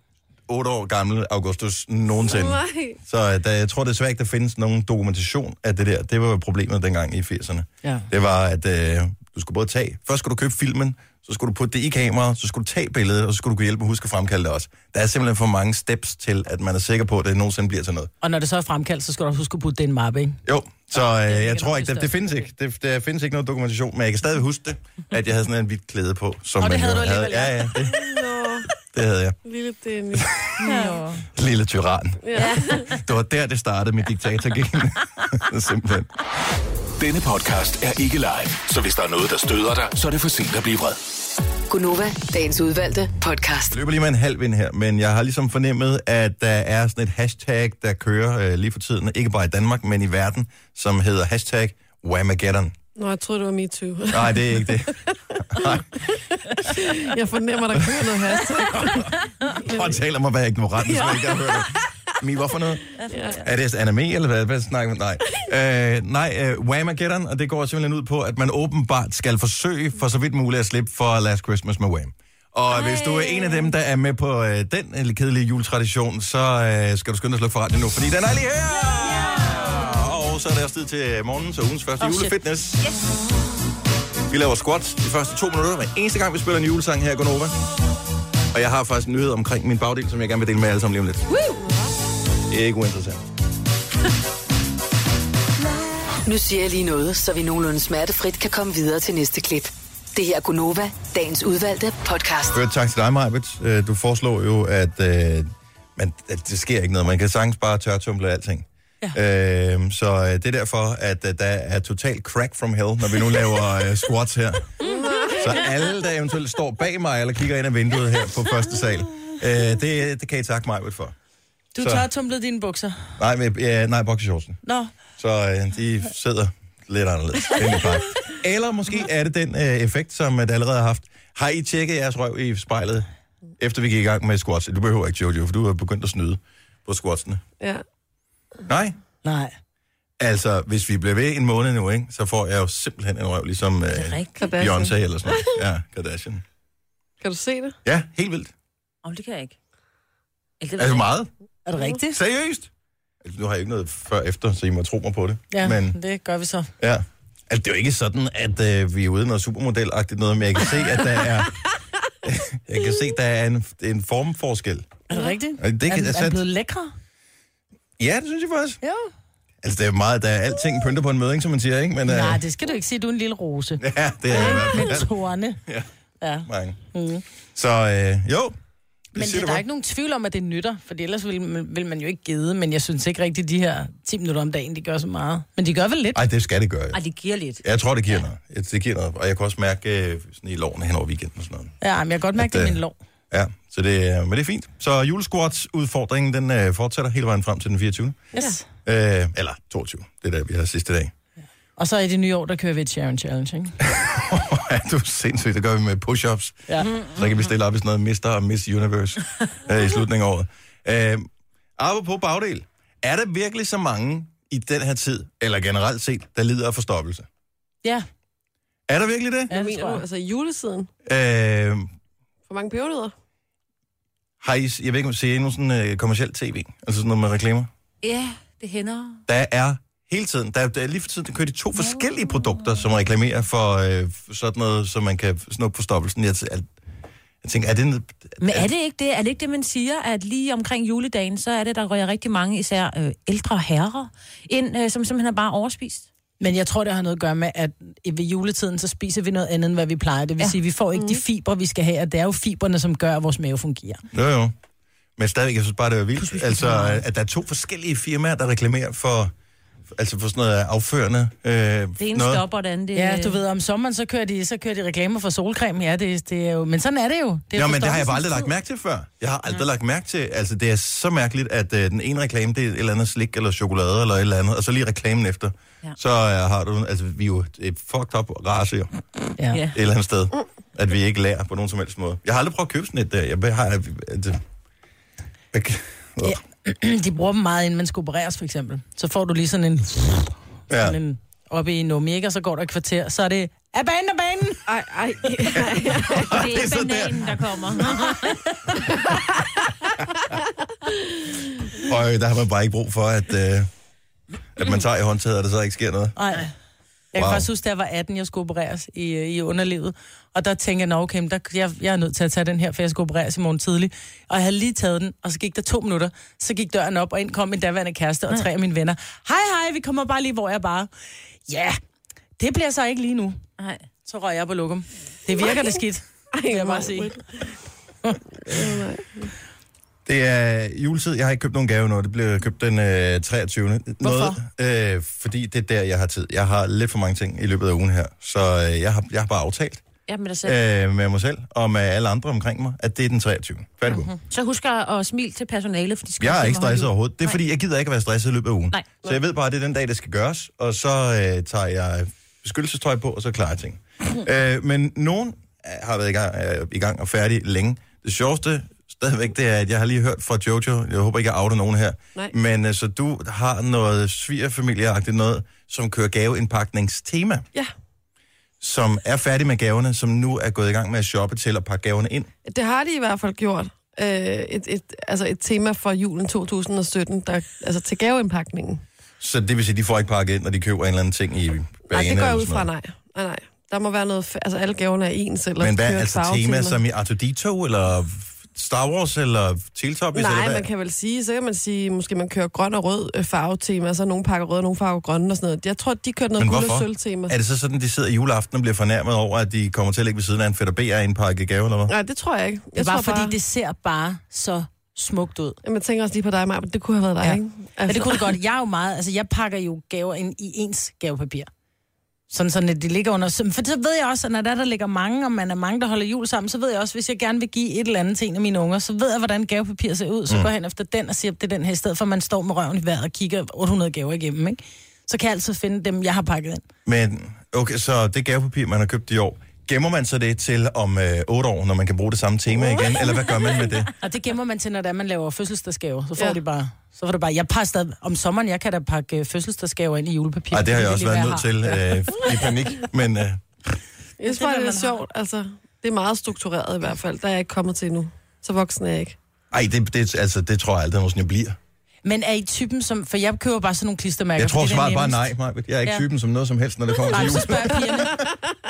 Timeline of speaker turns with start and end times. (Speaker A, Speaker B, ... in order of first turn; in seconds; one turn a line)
Speaker A: 0.5-18.1
Speaker B: 2.1-3.0
Speaker C: 18.2-20.4
Speaker A: 20.4-28.2
Speaker C: 21.0-22.5
Speaker C: 26.6-27.7
Speaker B: 27.9-28.7
Speaker A: 28.9-29.4
Speaker B: 29.4-30.3
Speaker A: 30.1-30.5
Speaker D: 30.6-31.2
Speaker C: 30.7-30.9
Speaker A: 31.3-36.1
Speaker B: 32.2-32.9
Speaker D: 32.3-33.0
Speaker E: 37.0-41.0
Speaker F: 41.7-43.7
Speaker A: 43.7-52.7
Speaker B: 53.0-55.8
Speaker A: 54.1-55.9
Speaker B: 56.5-60.0
Speaker A: 57.7-82.9
Speaker B: 60.8-61.8
Speaker D: 63.0-63.4
Speaker B: 63.1-63.4
Speaker D: 72.7-73.7
Speaker C: 82.0-82.3
Speaker A: 84.3-87.5
Speaker A: 88.5-91.3
Speaker B: 91.5-91.9
Speaker A: 92.5-93.2
Speaker F: 96.2-102.6
Speaker A: 102.5-114.7
Speaker B: 114.8-115.7
Speaker A: 115.3-121.1
Speaker C: 121.7-123.1
Speaker A: 121.8-122.1
Speaker A: 123.2-124.6
Speaker C: 124.6-124.9
Speaker A: 125.2-133.1
Speaker A: 133.6-137.4
Speaker A: 138.7-138.9
Speaker C: 139.2-139.5
Speaker A: 140.2-146.4
Speaker D: 143.9-144.6
Speaker B: 144.4-145.6
Speaker B: 147.2-147.8
Speaker A: 147.8-148.5
Speaker D: 149.0-149.6
Speaker D: 150.6-151.1
Speaker A: 150.8-151.3
Speaker C: 151.7-152.2
Speaker A: 152.1-152.7
Speaker A: 153.2-156.0
Speaker C: 155.5-156.7
Speaker A: 156.8-161.6
Speaker A: 162.2-164.9
Speaker C: 165.1-166.9
Speaker A: 165.6-166.4
Speaker A: 168.0-168.8
Speaker C: 168.8-169.1
Speaker A: 169.6-172.4
Speaker C: 172.1-175.6
Speaker A: 173.8-175.1
Speaker C: 176.2-177.2
Speaker A: 176.5-176.8
Speaker A: 177.5-178.6
Speaker A: 179.1-179.6
Speaker C: 179.1-186.2
Speaker A: 186.1-187.0
Speaker D: 186.9-187.6
Speaker A: 187.6-191.7
Speaker C: 191.8-192.9
Speaker A: 192.3-192.8
Speaker A: 193.3-198.2
Speaker C: 198.3-198.6
Speaker A: 198.8-201.1
Speaker C: 201.8-203.7
Speaker A: 203.8-217.3
Speaker D: 206.8-207.4
Speaker A: 218.9-219.5
Speaker C: 219.5-220.0
Speaker B: 219.5-220.9
Speaker A: 221.0-221.9
Speaker B: 222.5-223.1
Speaker A: 224.4-227.7
Speaker D: 228.0-229.2
Speaker A: 229.3-236.7
Speaker D: 231.8-232.8
Speaker A: 237.4-238.7
Speaker D: 238.4-246.1
Speaker C: 246.4-254.0
Speaker A: 254.1-254.5
Speaker A: 255.2-259.3
Speaker D: 256.2-257.0
Speaker A: 259.9-262.4
Speaker D: 262.0-263.4
Speaker C: 262.9-268.5
Speaker A: 267.5-278.9
Speaker D: 279.5-279.8
Speaker A: 279.7-284.4
Speaker A: 285.5-286.4
Speaker C: 286.2-294.6
Speaker A: 290.7-291.0
Speaker B: 294.7-296.3
Speaker A: 295.5-298.1
Speaker D: 296.1-298.4
Speaker A: 301.8-303.7
Speaker A: 304.6-306.2
Speaker C: 306.2-306.5
Speaker C: 307.1-320.9
Speaker A: 307.1-307.5
Speaker C: 321.5-321.8
Speaker C: 322.4-323.4
Speaker D: 323.6-323.9
Speaker C: 324.0-327.2
Speaker B: 326.3-327.5
Speaker B: 328.4-329.3
Speaker A: 330.1-339.8
Speaker D: 334.0-334.4
Speaker D: 340.1-340.6
Speaker A: 340.4-344.1
Speaker D: 343.9-347.4
Speaker A: 346.2-367.4
Speaker A: 368.6-372.3
Speaker B: 372.4-378.8
Speaker A: 379.2-382.7
Speaker B: 381.9-386.8
Speaker A: 385.6-390.7
Speaker B: 390.1-397.4
Speaker A: 396.4-401.9
Speaker B: 401.9-403.3
Speaker C: 402.8-405.6
Speaker B: 405.6-408.3
Speaker C: 407.2-411.5
Speaker C: 412.3-426.6
Speaker A: 426.9-433.9
Speaker B: 432.5-433.7
Speaker C: 434.0-442.0
Speaker A: 440.5-443.4
Speaker B: 444.2-449.2
Speaker C: 444.2-445.0
Speaker A: 449.5-451.6
Speaker C: 452.0-455.3
Speaker A: 454.4-458.2
Speaker C: 457.1-458.2